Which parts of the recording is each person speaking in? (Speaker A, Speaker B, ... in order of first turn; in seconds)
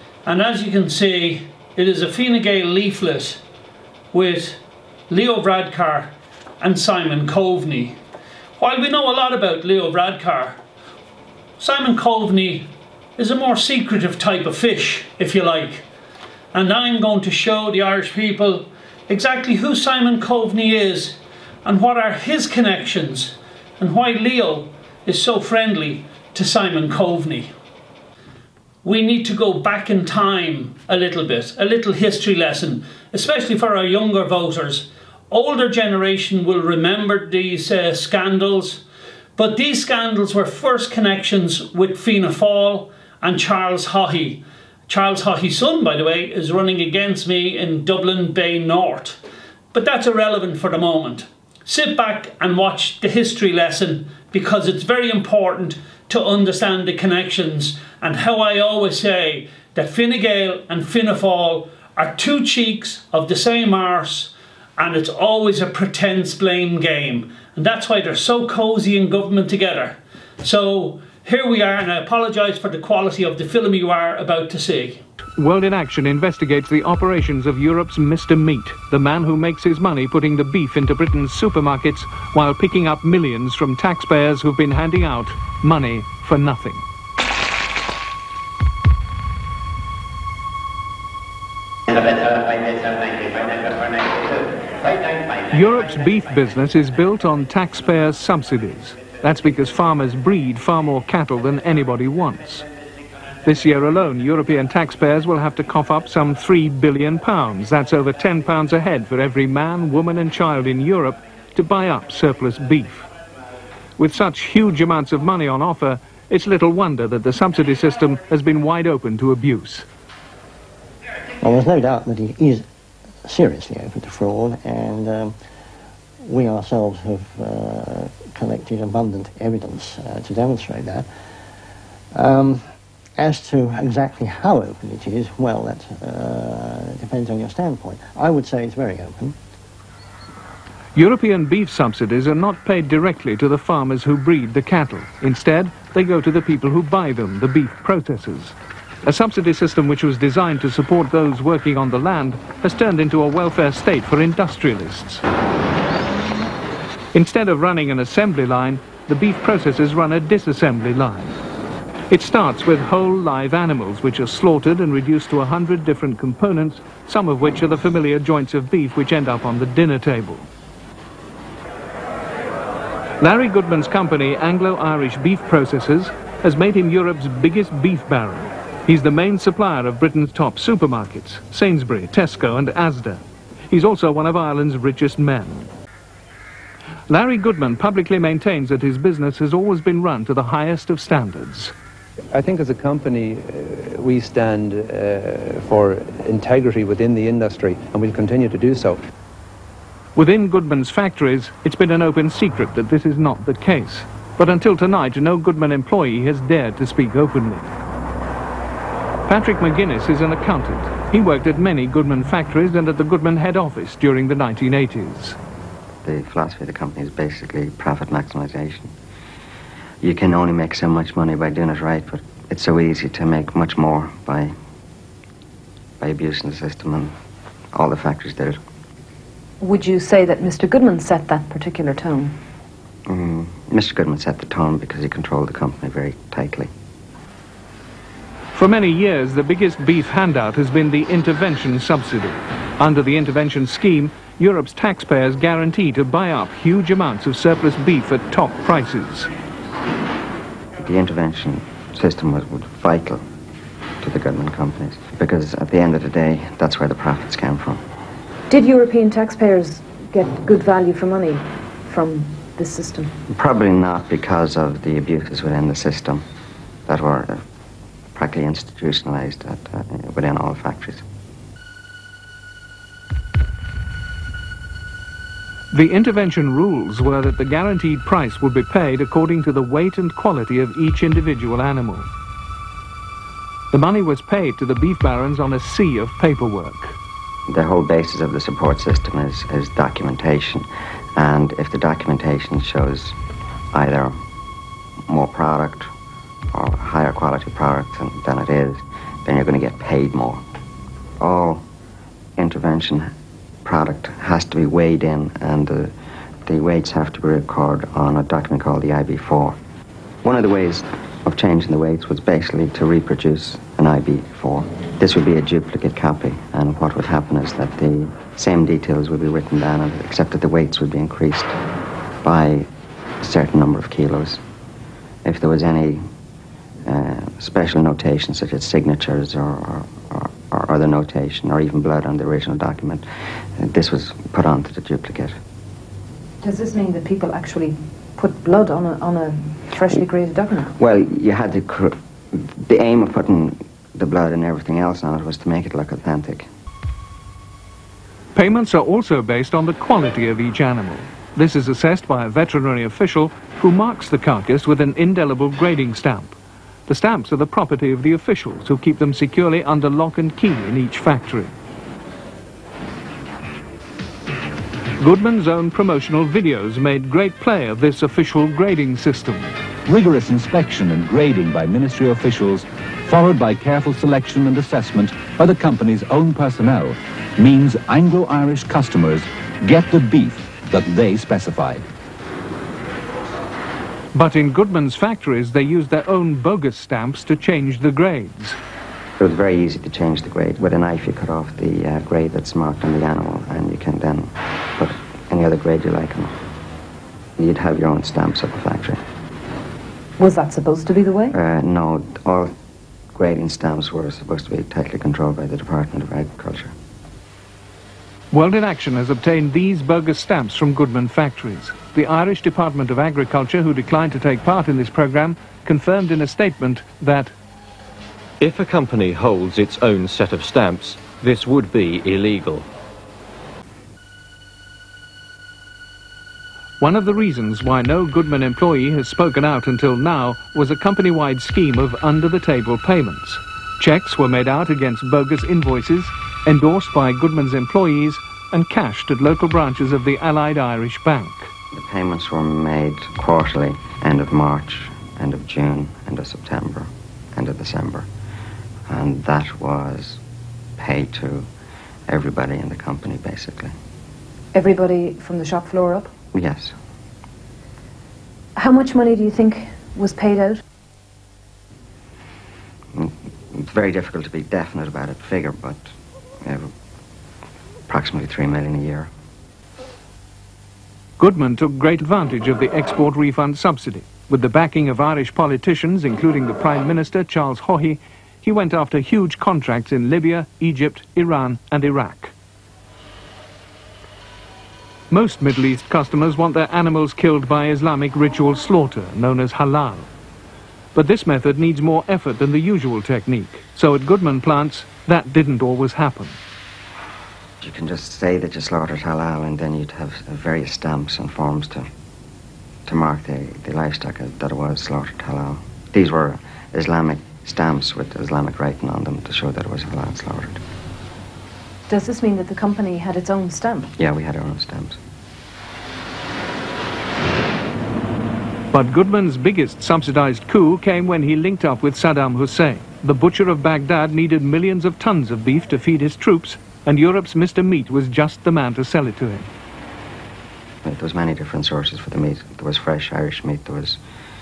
Speaker A: 0.2-3.4, 4.1-8.0, 8.6-10.6, 11.6-15.8, 16.5-27.5, 28.8-38.8, 39.4-49.2, 49.7-75.0
Speaker B: 75.4-86.8, 95.5-102.7, 103.4-113.0, 114.0-119.8, 140.9-155.2, 157.1-161.4, 162.1-170.5, 173.2-185.7, 187.1-191.7, 200.2-207.7, 209.3-215.4, 238.5-249.3, 275.7-282.1, 283.7-287.0, 348.3-356.3, 356.9-361.5, 365.0-369.5, 384.1-388.6, 408.3-417.3, 426.8-441.5, 471.2-482.3, 485.1-490.1, 490.9-496.4, 518.7-529.5
Speaker C: 121.4-122.7, 123.2-125.3, 126.2-131.1, 132.1-132.6, 133.2-139.3
Speaker D: 192.3-199.0
Speaker E: 216.0-218.9, 220.0-224.5, 226.0-227.1, 227.7-228.6, 233.1-236.7, 250.8-253.2, 254.0-257.8, 263.3-266.2, 266.9-267.4, 268.1-271.0, 287.5-293.2, 293.7-294.2, 295.1-295.9, 296.5-300.4, 301.2-301.6, 302.4-303.1, 303.6-305.9, 306.4-309.6, 310.2-321.6, 322.2-322.7, 323.2-324.4, 325.2-326.1, 326.8-333.1, 333.6-335.4, 340.8-346.5, 389.2-396.4, 397.4-399.0, 401.3-402.5, 403.1-406.7, 441.7-448.1, 448.9-450.2, 450.8-451.5, 452.1-453.7, 456.3-456.7, 462.9-465.9, 466.4-466.7, 467.9-469.1, 497.6-501.9, 502.9-510.6, 514.0-515.0, 530.8-534.0
Speaker F: 229.6-232.4, 258.5-263.1, 336.4-340.7, 400.2-401.3, 454.5-456.1, 458.6-460.6, 511.9-513.9
Speaker G: 369.9-381.8
Speaker H: 418.4-422.6